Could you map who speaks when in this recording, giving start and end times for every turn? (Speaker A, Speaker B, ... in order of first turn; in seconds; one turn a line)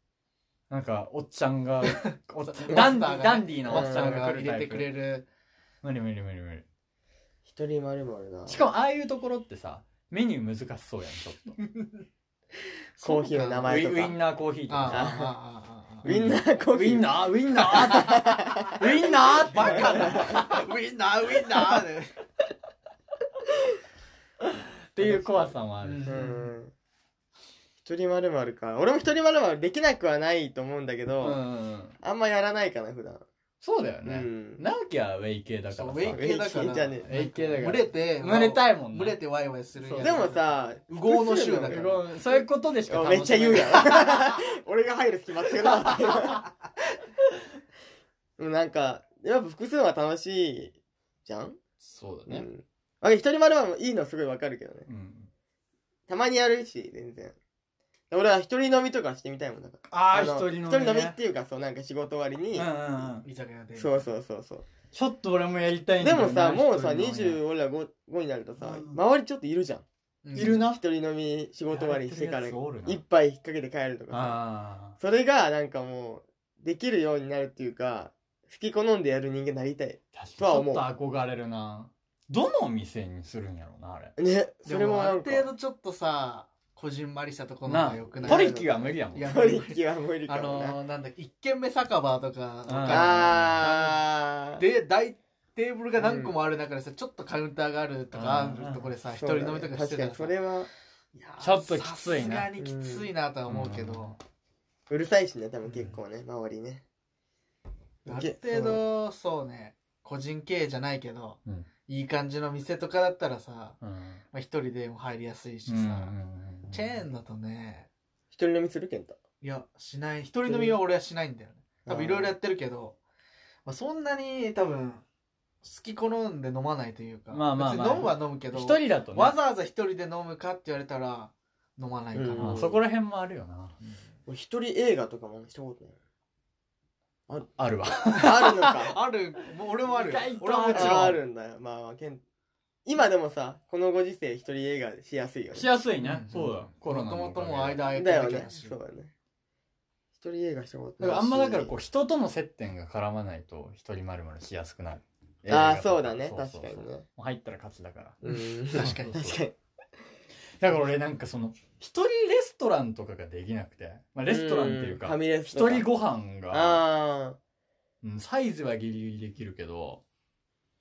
Speaker A: 0.7-4.9
Speaker B: 1.9-5.3
Speaker C: 3.7-4.2
Speaker A: 5.8-6.7
Speaker C: 7.5-8.6
Speaker A: 8.5-11.6
Speaker B: 11.6-12.1
Speaker B: 13.0-14.1
Speaker C: 13.0-14.2
Speaker A: 13.7-15.1
Speaker B: 14.7-16.1
Speaker C: 14.9-15.3
Speaker C: 16.1-19.1
Speaker A: 16.1-20.6
Speaker B: 18.6-22.1
Speaker C: 19.7-20.4
Speaker A: 24.9-26.2
Speaker C: 25.0-26.7
Speaker B: 25.8-26.5
Speaker C: 27.8-31.4
Speaker A: 31.2-31.9
Speaker C: 32.0-33.3
Speaker A: 33.6-36.2
Speaker C: 34.0-34.6
Speaker B: 35.7-41.9
Speaker C: 36.1-37.0
Speaker A: 37.1-39.2
Speaker A: 39.8-40.2
Speaker C: 40.0-46.5
Speaker A: 41.7-44.3
Speaker C: 48.4-51.6
Speaker A: 51.8-52.5
Speaker C: 52.3-54.9
Speaker A: 54.9-55.3
Speaker C: 56.1-57.4
Speaker C: 58.1-62.7
Speaker A: 59.9-61.2
Speaker A: 62.5-63.3
Speaker B: 63.2-64.1
Speaker C: 63.8-64.7
Speaker A: 64.9-67.4
Speaker C: 66.0-74.4
Speaker A: 68.6-69.0
Speaker B: 70.2-70.6
Speaker A: 70.3-70.8
Speaker A: 71.7-73.0
Speaker A: 74.1-75.0
Speaker C: 75.0-80.9
Speaker A: 80.1-84.2
Speaker C: 84.2-85.5
Speaker B: 84.7-94.0
Speaker A: 87.7-89.3
Speaker C: 88.2-90.8
Speaker A: 92.7-93.2
Speaker C: 92.9-94.6
Speaker B: 94.6-100.3
Speaker C: 96.0-96.3
Speaker A: 98.1-98.9
Speaker C: 99.2-100.7
Speaker B: 101.2-104.2
Speaker A: 101.4-102.5
Speaker C: 102.6-103.1
Speaker A: 103.5-104.2
Speaker C: 104.9-106.8
Speaker C: 108.0-108.8
Speaker B: 108.1-113.8
Speaker A: 113.8-114.2
Speaker B: 114.3-116.1
Speaker A: 115.7-117.0
Speaker B: 116.7-117.9
Speaker C: 118.3-119.2
Speaker B: 119.4-123.0
Speaker C: 120.5-120.8
Speaker C: 121.8-122.3
Speaker B: 123.7-125.0
Speaker B: 125.6-132.7
Speaker A: 127.3-129.4
Speaker C: 132.2-132.8
Speaker A: 132.4-133.8
Speaker C: 134.3-136.0
Speaker A: 137.6-138.7
Speaker B: 138.0-141.2
Speaker C: 138.0-139.0
Speaker A: 139.9-141.2
Speaker C: 140.7-142.2
Speaker C: 142.8-145.7
Speaker A: 145.5-147.9
Speaker B: 146.0-148.8
Speaker C: 147.9-149.1
Speaker C: 150.2-151.7
Speaker A: 151.0-158.2
Speaker C: 155.5-157.1
Speaker C: 158.2-159.6
Speaker B: 158.2-159.4
Speaker A: 160.6-166.8
Speaker C: 164.3-165.9
Speaker C: 166.5-167.4
Speaker A: 168.0-170.0